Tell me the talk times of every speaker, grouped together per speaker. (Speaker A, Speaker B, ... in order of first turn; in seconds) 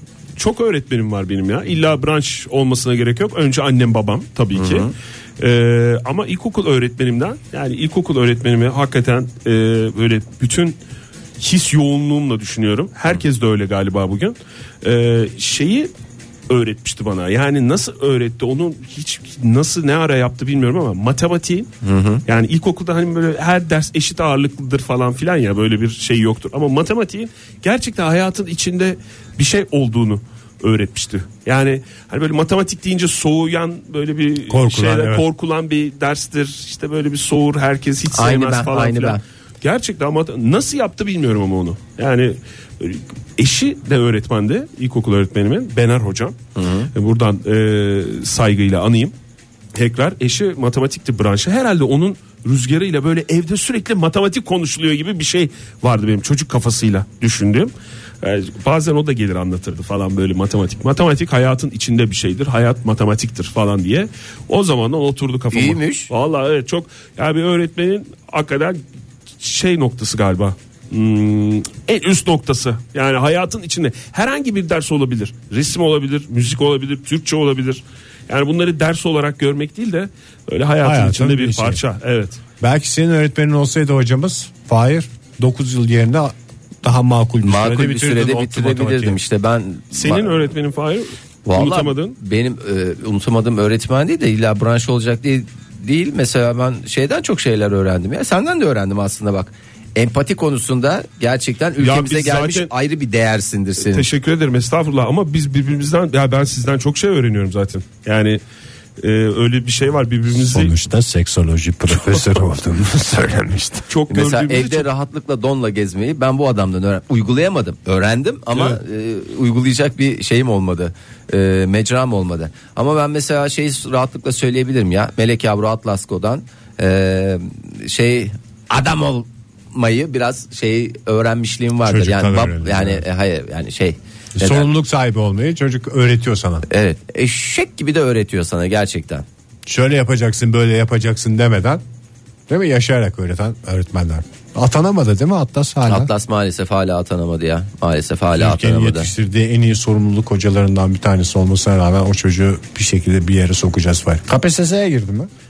Speaker A: 0.4-10.8, 11.4-15.9, 16.5-21.7, 22.2-46.3, 46.9-49.1, 49.7-68.8, 69.4-82.4, 89.9-92.2, 101.8-102.7, 103.8-108.4, 109.0-110.7, 112.0-112.2, 113.9-114.9
Speaker B: 4.5-4.9, 21.8-22.2, 38.1-39.2, 46.5-46.9, 65.5-66.1, 87.4-90.3, 91.5-104.1, 114.1-134.7, 136.7-139.2, 145.9-149.1
Speaker C: 34.5-35.2, 80.8-81.8, 82.6-89.2, 110.3-113.9, 131.8-133.0, 134.3-136.6, 139.7-141.8, 142.5-146.1, 148.3-155.3